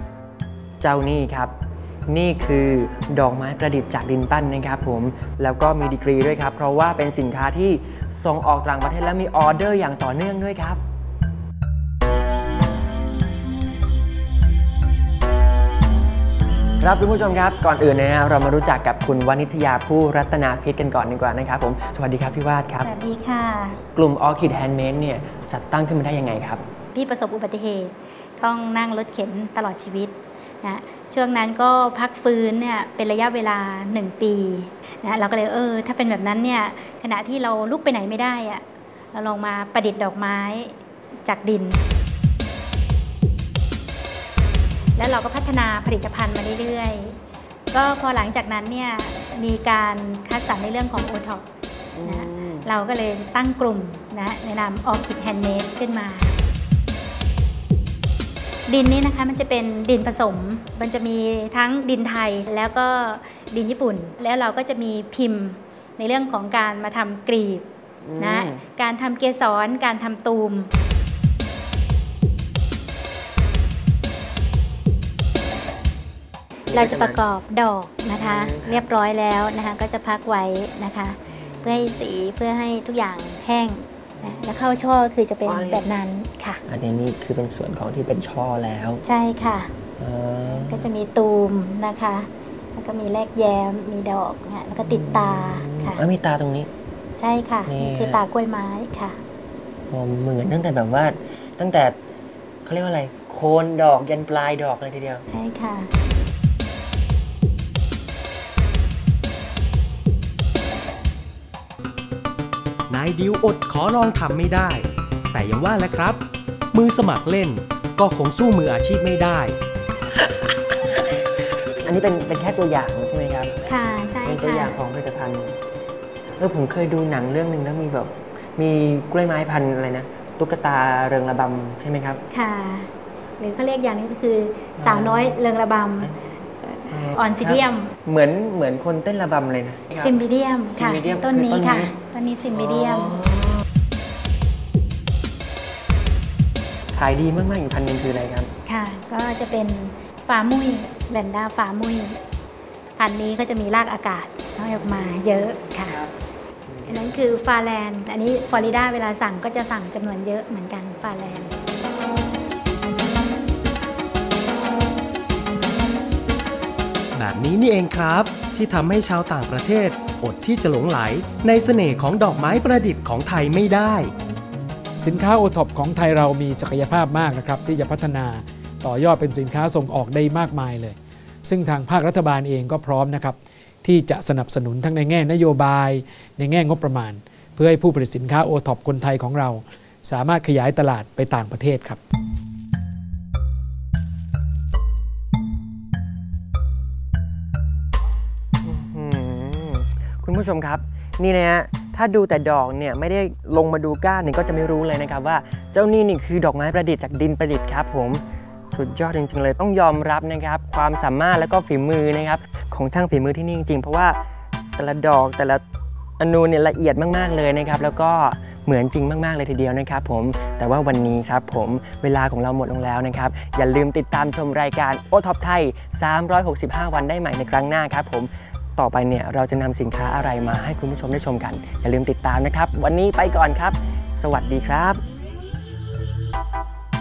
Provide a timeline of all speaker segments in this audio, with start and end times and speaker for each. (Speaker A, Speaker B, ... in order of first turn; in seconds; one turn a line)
Speaker A: 0.8-1.5
Speaker A: 2.1-10.8
Speaker A: 16.8-22.9
Speaker B: 22.8-23.8
Speaker A: 23.9-26.6
Speaker B: 26.9-41.8
Speaker B: 45.0-47.2
Speaker B: 47.7-51.5
Speaker A: 51.9-52.7
Speaker B: 52.0-56.4
Speaker B: 58.7-70.7
Speaker A: 68.0-68.6
Speaker B: 76.7-86.6
Speaker A: 76.7-77.2
Speaker A: 78.2-78.8
Speaker A: 81.3-82.0
Speaker A: 84.2-84.8
Speaker A: 85.4-85.9
Speaker A: 86.7-89.0
Speaker B: 89.0-89.7
Speaker A: 90.0-90.9
Speaker B: 90.5-96.0
Speaker A: 94.8-96.7
Speaker B: 97.2-99.2
Speaker A: 97.7-98.2
Speaker A: 99.9-102.0
Speaker A: 102.6-105.2
Speaker B: 105.3-105.9
Speaker C: 112.9-119.6
Speaker A: 121.8-123.5
Speaker B: 123.7-124.8
Speaker A: 124.2-125.5
Speaker A: 126.4-132.2
Speaker B: 132.3-137.9
Speaker A: 134.8-135.4
Speaker A: 136.9-140.2
Speaker B: 139.9-143.2
Speaker A: 140.7-141.9
Speaker A: 142.5-143.6
Speaker A: 146.9-148.5
Speaker B: 148.7-152.2
Speaker B: 152.9-156.0
Speaker A: 154.6-156.1
Speaker A: 156.7-157.2
Speaker B: 156.9-161.5
Speaker C: 167.1-174.1
Speaker D: 175.0-192.0
Speaker A: 198.6-214.2
Speaker A: 214.8-215.6
Speaker A: 216.2-235.0